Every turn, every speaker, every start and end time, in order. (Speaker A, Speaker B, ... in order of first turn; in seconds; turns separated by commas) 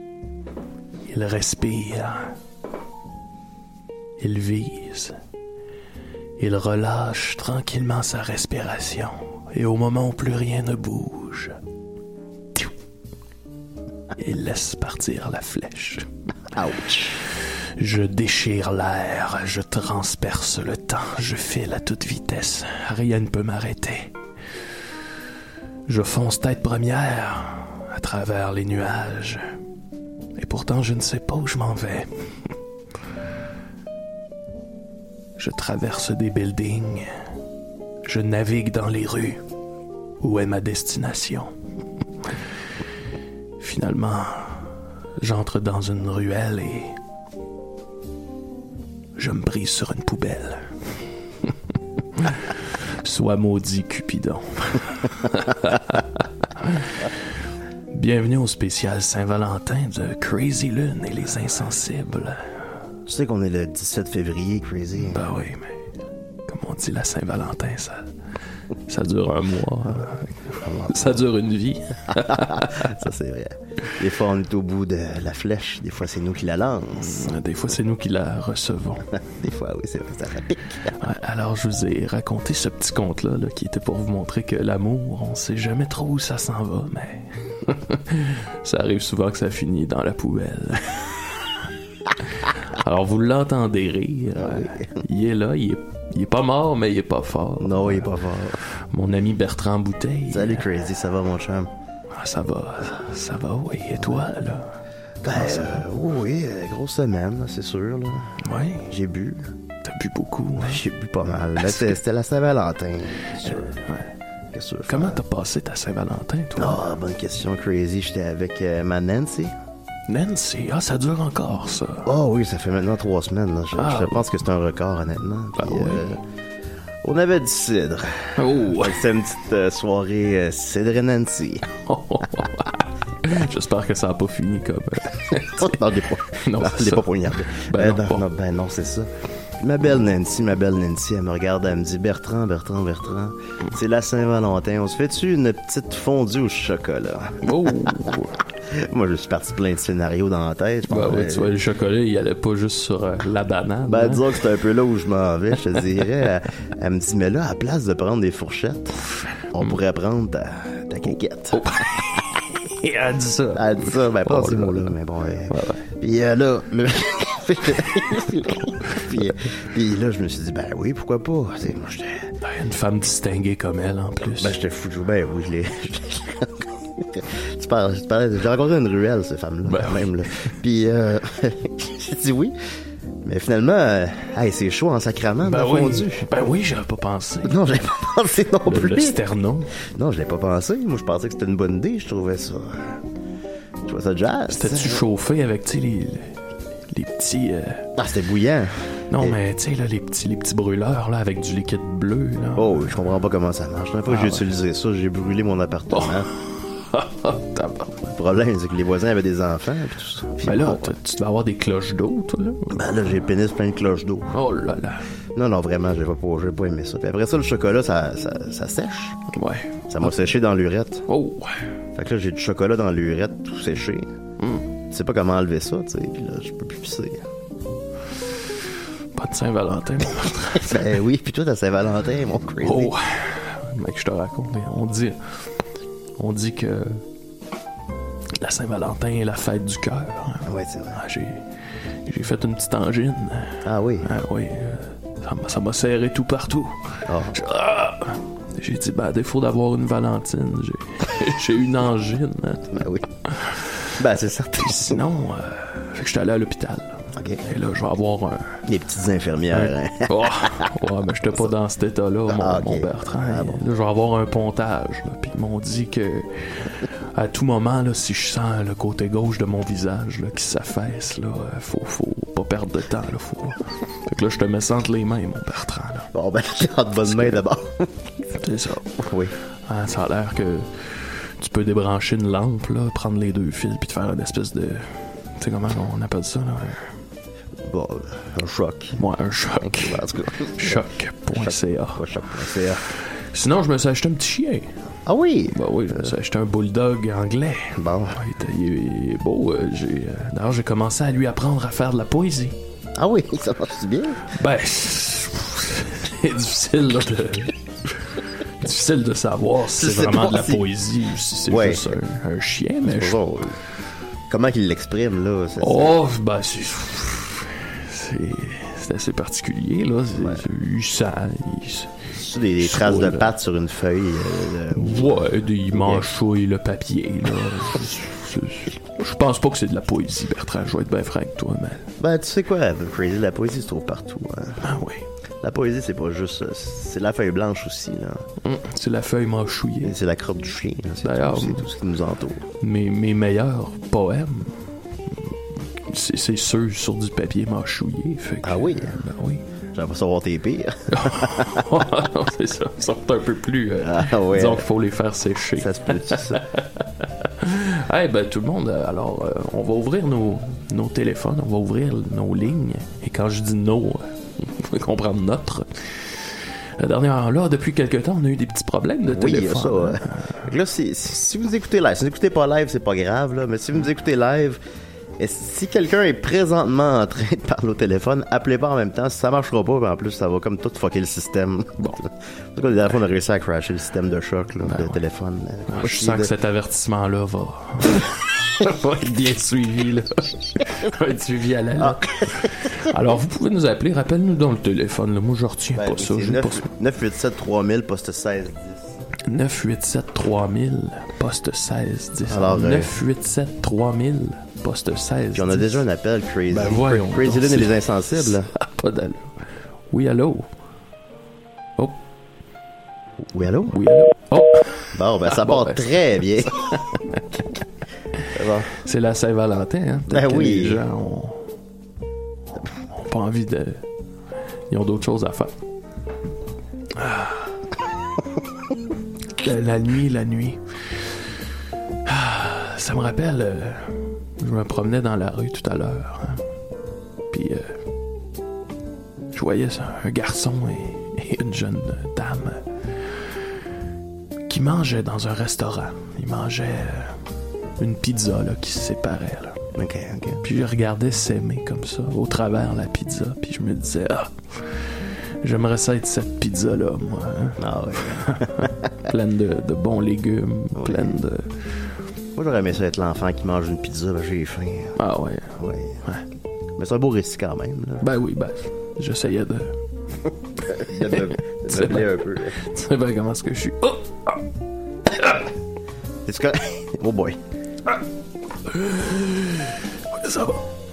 Speaker A: 1.1-2.3, Speaker A: 4.2-5.2, Speaker A: 6.4-11.6, Speaker A: 14.2-16.1, Speaker B: 16.5-17.2, Speaker A: 17.8-24.1, Speaker A: 25.9-29.4, Speaker A: 30.4-32.1, Speaker A: 35.4-37.1, Speaker A: 38.0-39.4, Speaker A: 40.2-41.5, Speaker A: 43.6-47.0, Speaker A: 49.2-50.7, Speaker A: 52.2-57.1, Speaker A: 57.9-62.5, Speaker B: 63.1-65.2, Speaker A: 65.0-65.8, Speaker A: 66.5-68.1, Speaker A: 68.9-73.0, Speaker B: 70.6-71.2, Speaker B: 72.1-77.3, Speaker A: 77.0-79.1, Speaker B: 79.2-80.9, Speaker A: 81.0-91.2, Speaker A: 92.4-98.1, Speaker B: 94.4-95.0, Speaker B: 97.6-98.6, Speaker A: 98.9-100.7, Speaker B: 100.3-101.7, Speaker A: 102.1-104.7, Speaker B: 104.0-104.3, Speaker B: 105.2-108.4, Speaker A: 105.3-105.8, Speaker A: 108.4-108.9, Speaker B: 108.9-109.5, Speaker A: 109.8-110.8, Speaker B: 110.6-113.8, Speaker A: 111.6-112.0, Speaker A: 113.8-114.1, Speaker B: 114.5-115.2, Speaker A: 114.9-116.8, Speaker B: 116.6-119.5, Speaker A: 120.1-122.1, Speaker B: 122.1-126.2, Speaker A: 123.8-124.3, Speaker A: 125.6-126.0, Speaker B: 127.0-131.7, Speaker A: 128.4-129.0, Speaker A: 131.8-135.8, Speaker B: 135.3-148.1, Speaker A: 136.3-138.2, Speaker A: 147.4-148.4, Speaker B: 148.7-151.5, Speaker A: 150.9-154.3, Speaker B: 153.9-159.0, Speaker B: 159.5-161.7, Speaker A: 161.1-164.9, Speaker B: 163.5-172.3, Speaker A: 165.5-165.9, Speaker A: 172.4-174.6, Speaker B: 174.2-182.6, Speaker A: 179.7-180.1, Speaker B: 183.2-186.3, Speaker A: 185.4-187.6, Speaker B: 187.4-189.2, Speaker A: 188.7-189.7, Speaker B: 189.8-193.0, Speaker B: 193.8-195.0, Speaker A: 194.5-197.9, Speaker B: 198.0-199.4, Speaker A: 199.1-202.9, Speaker B: 202.6-206.3, Speaker A: 204.1-204.4, Speaker A: 205.9-208.0, Speaker B: 208.0-210.9, Speaker A: 210.4-212.8, Speaker B: 212.7-214.3, Speaker A: 214.3-215.0, Speaker B: 215.3-219.2, Speaker A: 219.3-220.3, Speaker B: 219.9-221.1, Speaker A: 221.1-221.6, Speaker B: 221.9-224.1, Speaker A: 224.4-224.7, Speaker B: 224.9-227.2, Speaker A: 229.2-230.8, Speaker B: 230.7-232.9, Speaker A: 232.6-235.4, Speaker A: 236.2-237.0, Speaker A: 238.4-241.5, Speaker B: 240.5-241.0, Speaker A: 242.1-253.7, Speaker B: 243.6-244.1, Speaker B: 247.1-247.4, Speaker B: 252.7-253.1, Speaker B: 254.0-255.0, Speaker A: 254.6-258.6, Speaker B: 257.2-257.4, Speaker B: 258.7-260.7, Speaker A: 259.5-276.1, Speaker B: 262.3-263.6, Speaker B: 276.1-278.1, Speaker A: 277.1-277.4, Speaker A: 278.3-279.0, Speaker B: 279.0-279.4, Speaker A: 279.7-286.9, Speaker B: 287.6-289.0, Speaker A: 289.0-290.0, Speaker B: 289.6-292.8, Speaker A: 290.6-292.0, Speaker A: 293.3-294.8, Speaker B: 295.1-296.1, Speaker A: 295.5-302.6, Speaker B: 297.8-298.2, Speaker B: 303.0-304.2, Speaker A: 304.3-313.2, Speaker B: 309.8-310.6, Speaker B: 311.5-311.9, Speaker B: 312.8-313.6, Speaker B: 314.3-315.9, Speaker A: 315.6-321.9, Speaker B: 320.1-320.4, Speaker B: 322.1-326.1, Speaker A: 322.6-323.3, Speaker A: 324.8-331.9, Speaker B: 332.0-334.6, Speaker A: 334.6-335.1, Speaker B: 335.4-338.2, Speaker A: 338.4-339.9, Speaker B: 339.8-342.4, Speaker A: 341.0-341.6, Speaker A: 342.6-344.7, Speaker A: 345.9-349.4, Speaker B: 348.4-349.0, Speaker B: 349.7-351.8, Speaker A: 350.9-370.4, Speaker B: 353.8-354.7, Speaker B: 355.6-356.4, Speaker B: 369.1-374.6, Speaker B: 375.2-386.3, Speaker A: 384.6-385.0, Speaker A: 385.7-396.7, Speaker B: 391.8-392.5, Speaker B: 395.8-398.9, Speaker A: 399.2-405.8, Speaker B: 402.3-402.9, Speaker B: 405.3-408.5, Speaker A: 406.5-409.3, Speaker A: 409.9-410.5, Speaker B: 413.3-413.9, Speaker A: 413.7-417.4, Speaker B: 414.9-416.6, Speaker B: 418.3-418.7, Speaker A: 418.8-421.6, Speaker B: 420.1-420.8, Speaker A: 422.9-423.8, Speaker A: 424.7-425.5, Speaker A: 427.0-427.5, Speaker A: 429.3-431.1, Speaker A: 432.1-436.4, Speaker A: 437.3-437.8, Speaker A: 439.3-442.7, Speaker A: 444.5-447.2, Speaker A: 447.8-449.7, Speaker B: 449.8-450.4, Speaker A: 450.4-454.8, Speaker A: 455.4-457.6, Speaker B: 457.6-458.9, Speaker A: 458.1-461.8, Speaker B: 460.8-461.2, Speaker B: 462.4-465.0, Speaker A: 465.0-466.2, Speaker B: 465.6-466.0, Speaker B: 466.8-468.0, Speaker A: 468.0-469.8, Speaker B: 470.7-472.6, Speaker A: 471.1-474.4, Speaker A: 475.2-475.4, Speaker B: 476.2-477.4, Speaker A: 478.7-480.6